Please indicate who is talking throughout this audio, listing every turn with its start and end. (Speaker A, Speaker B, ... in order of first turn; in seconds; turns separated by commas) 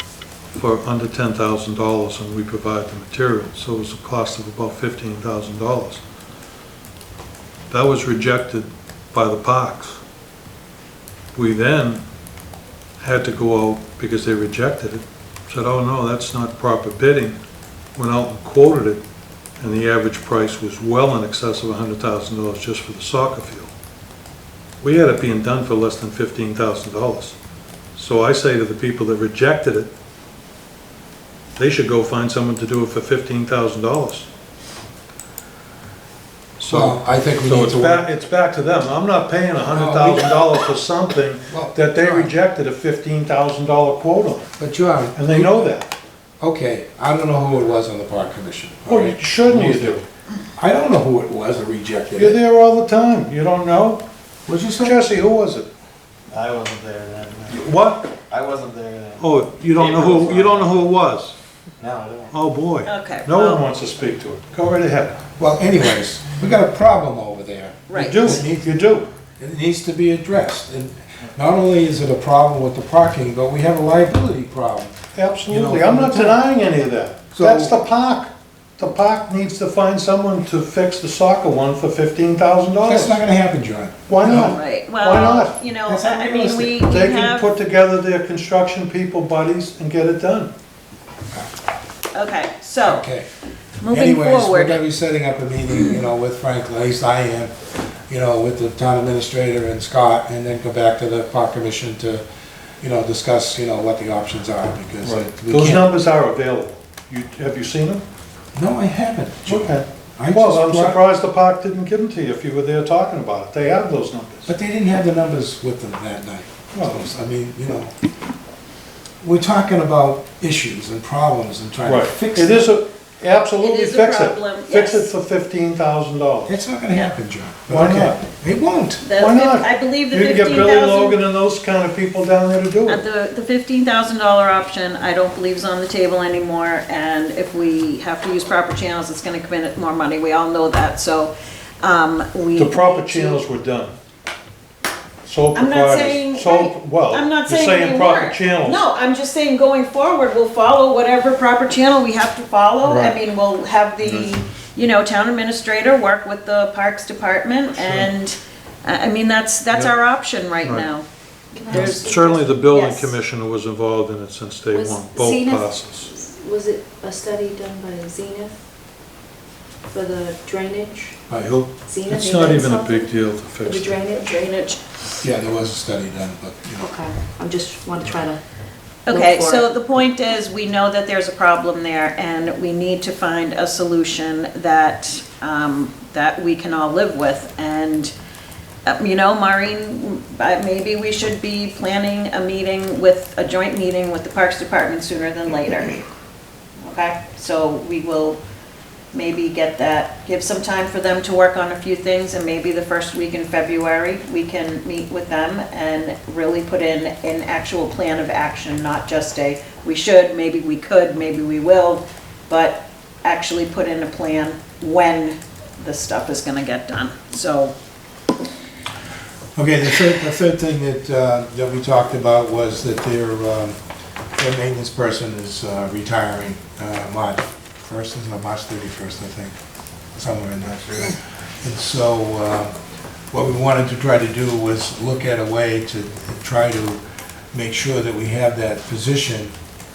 Speaker A: 0.5-6.0, Speaker A: 7.7-10.0, Speaker A: 11.3-12.0, Speaker A: 13.0-17.4, Speaker A: 17.9-19.0, Speaker A: 19.6-23.7, Speaker A: 24.8-27.4, Speaker A: 27.9-29.9, Speaker A: 31.6-34.3, Speaker A: 36.6-44.5, Speaker B: 36.7-38.0, Speaker B: 39.7-40.6, Speaker B: 41.5-42.3, Speaker B: 44.6-45.7, Speaker A: 45.1-45.9, Speaker B: 46.4-50.0, Speaker A: 48.9-50.0, Speaker B: 50.6-52.4, Speaker A: 52.1-54.0, Speaker B: 54.5-55.0, Speaker A: 54.8-55.7, Speaker C: 56.3-57.5, Speaker A: 57.5-58.1, Speaker C: 58.2-60.9, Speaker A: 59.2-61.3, Speaker C: 61.8-62.3, Speaker A: 62.3-65.2, Speaker D: 62.8-63.6, Speaker B: 65.4-68.8, Speaker D: 67.9-68.4, Speaker A: 67.9-69.1, Speaker B: 69.4-74.9, Speaker A: 75.1-83.2, Speaker B: 75.5-76.4, Speaker B: 77.3-77.8, Speaker B: 82.8-84.6, Speaker A: 84.1-85.5, Speaker D: 84.3-87.5, Speaker B: 85.8-86.8, Speaker A: 86.8-90.5, Speaker D: 92.1-93.0, Speaker B: 92.8-93.2, Speaker D: 93.8-94.8, Speaker B: 93.9-97.5, Speaker B: 98.1-102.2, Speaker B: 102.8-105.9, Speaker A: 105.0-108.0, Speaker B: 108.5-111.0, Speaker A: 109.5-114.5, Speaker B: 114.5-117.9, Speaker A: 116.7-117.0, Speaker B: 119.2-122.8, Speaker A: 121.8-126.5, Speaker D: 123.6-125.1, Speaker B: 126.5-129.0, Speaker A: 127.7-128.2, Speaker D: 129.0-131.2, Speaker A: 129.2-133.0, Speaker D: 132.9-143.4, Speaker A: 142.6-143.9, Speaker A: 145.2-148.8, Speaker D: 145.5-161.1, Speaker A: 152.8-153.2, Speaker A: 154.0-154.4, Speaker A: 157.7-158.1, Speaker E: 161.5-162.4, Speaker D: 161.7-163.1, Speaker A: 161.7-166.1, Speaker E: 164.7-168.5, Speaker E: 169.9-171.2, Speaker A: 171.3-174.0, Speaker E: 171.8-173.1, Speaker E: 173.6-174.6, Speaker D: 174.2-174.8, Speaker B: 175.2-176.9, Speaker E: 176.8-178.4, Speaker D: 179.1-188.1, Speaker E: 179.1-179.7, Speaker D: 188.8-196.1, Speaker D: 196.8-198.4, Speaker D: 199.1-217.7, Speaker B: 219.5-223.8, Speaker B: 224.4-229.6, Speaker B: 230.1-232.7, Speaker B: 233.3-237.0, Speaker B: 237.5-239.5